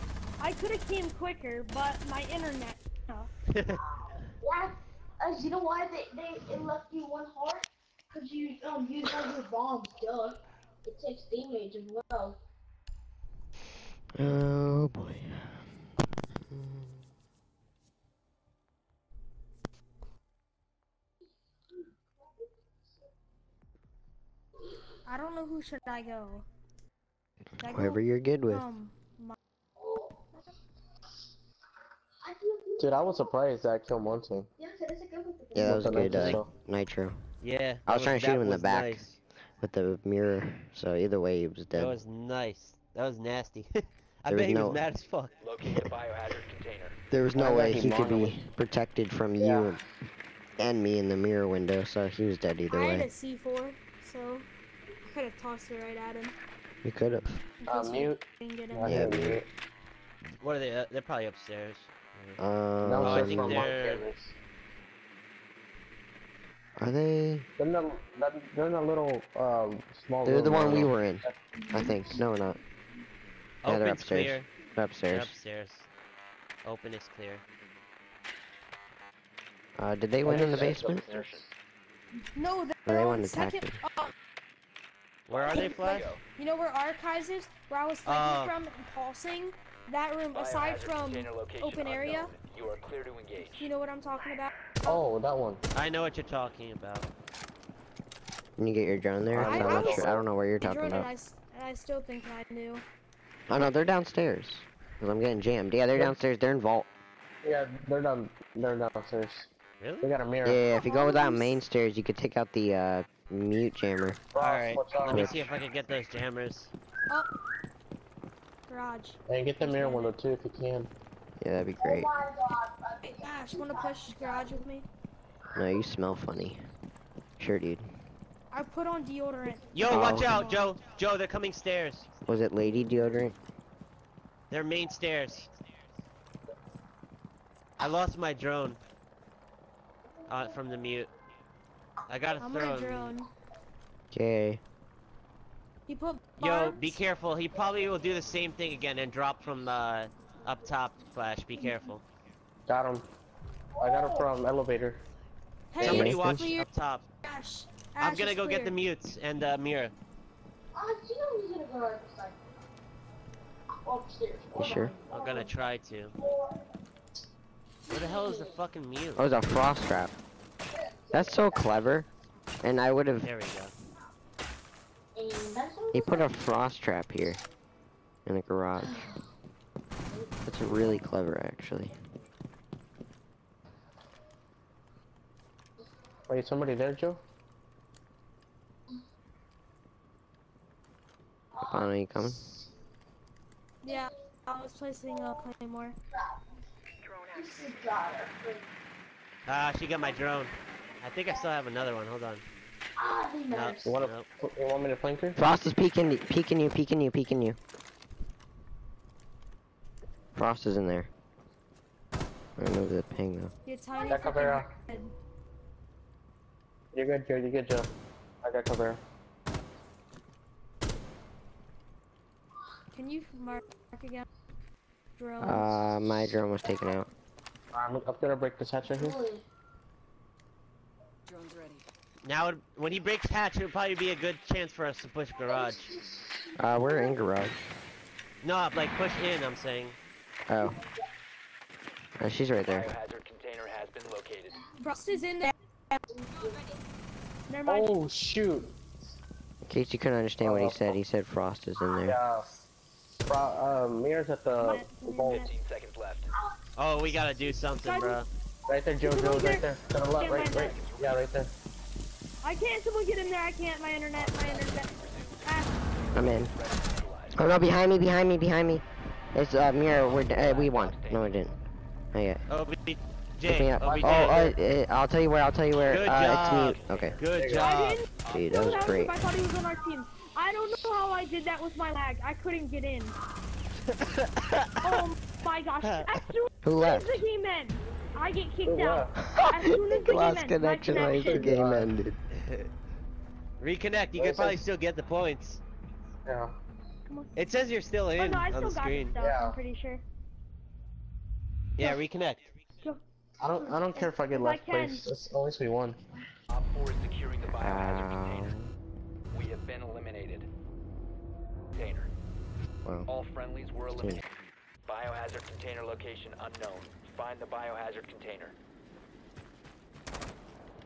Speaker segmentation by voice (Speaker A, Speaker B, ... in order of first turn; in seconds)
Speaker A: 0.4-3.3, 25.1-26.5, 27.6-29.4, 52.7-54.5, 55.1-56.4, 57.6-59.2, 82.3-84.1, 85.5-92.3, 93.4-95.1, 99.4-102.8, 110.7-111.6, 118.7-120.2, 123.0-124.9, 128.5-130.8, 142.4-143.3, 145.9-147.0, 155.7-156.7, 157.2-158.8, 193.8-196.0, 213.7-215.1, 222.9-224.2, 225.2-225.9, 244.8-246.0, 247.5-247.9, 254.6-255.5, 257.8-258.2, 259.0-260.8, 262.4-265.8, 277.6-283.2, 284.8-291.6, 297.1-297.3, 298.2-300.0, 302.8-305.1
Speaker B: 3.8-12.4, 29.8-30.3, 32.2-33.3, 34.6-36.3, 71.7-72.2, 121.8-124.6, 153.8-154.3, 160.8-162.4, 163.8-165.5, 166.2-166.5, 167.9-168.6, 170.8-172.0, 175.2-176.3, 178.8-179.2, 180.1-181.0, 191.6-192.4, 195.1-195.4, 197.3-198.7, 203.0-204.0, 214.0-214.3, 228.9-229.4, 235.4-237.3, 244.6-245.1, 246.1-246.8
Speaker C: 14.2-15.5, 16.5-16.9, 27.6-28.7, 35.5-37.2, 37.9-39.0, 39.6-42.0, 44.3-44.9, 47.1-49.8, 50.6-53.1, 56.8-57.4, 58.8-59.4, 62.4-63.6, 66.8-67.5, 70.2-72.6, 73.7-75.3, 79.8-81.0, 82.8-83.8, 98.6-101.1, 103.5-106.9, 110.4-114.2, 115.1-115.4, 121.4-122.1, 125.5-126.6, 127.4-127.8, 129.9-130.4, 132.2-133.4, 144.1-144.6, 155.8-156.5, 164.5-164.9, 169.2-170.1, 171.1-172.1, 172.6-173.3, 175.9-177.4, 178.3-179.0, 180.5-181.9, 191.7-192.4, 205.4-207.6, 210.3-211.1, 212.6-213.5, 225.4-227.1, 236.6-237.6, 240.5-240.8, 242.2-242.9, 249.6-252.2, 266.1-266.5, 267.3-268.8, 269.3-271.6, 272.1-272.4, 273.4-277.2, 278.3-279.2, 286.6-287.2, 289.4-292.2, 307.6-308.7, 313.9-314.2
Speaker D: 32.8-34.5, 35.6-36.5, 47.3-48.4, 49.4-49.8, 57.7-59.5, 62.8-64.4, 67.6-71.4, 80.2-81.5, 94.8-95.6, 99.3-100.3, 107.4-109.5, 110.0-110.6, 114.3-115.4, 119.3-120.9, 152.7-153.1, 153.8-155.0, 186.3-187.2, 203.8-205.4, 214.1-214.7, 216.9-219.0, 227.7-229.3, 247.7-248.7, 250.4-251.0, 252.0-252.5, 253.3-255.5, 258.7-261.5, 277.3-277.7, 288.7-289.1, 291.1-291.9, 294.1-294.7, 296.3-296.6, 299.2-299.6, 303.4-306.0
Speaker E: 37.4-39.2, 41.7-45.4, 60.4-62.4, 63.0-64.1, 73.6-74.5, 75.1-75.9, 76.6-77.4, 85.3-86.2, 88.0-88.5, 95.7-97.1, 109.8-110.1, 114.4-116.7, 129.7-132.1, 134.5-135.5, 137.8-138.8, 140.3-141.1, 142.1-143.2, 146.4-152.0, 155.8-157.0, 158.0-159.9, 165.1-166.2, 167.9-169.3, 173.2-173.7, 199.5-202.4, 203.5-204.3, 232.2-235.9, 238.4-240.0, 256.8-258.3, 272.5-274.6, 275.8-278.0, 283.9-285.0, 285.8-286.3, 292.4-292.7, 293.6-295.6, 297.4-299.1, 301.8-302.5
Speaker F: 45.4-47.0, 80.7-81.4, 85.3-86.2, 90.3-93.7, 242.7-244.7, 255.3-256.3, 260.2-261.4, 264.1-267.4, 270.0-271.4, 276.1-277.3, 278.1-279.2, 306.5-308.5, 309.3-310.5, 311.8-312.1, 313.1-314.2, 314.9-318.6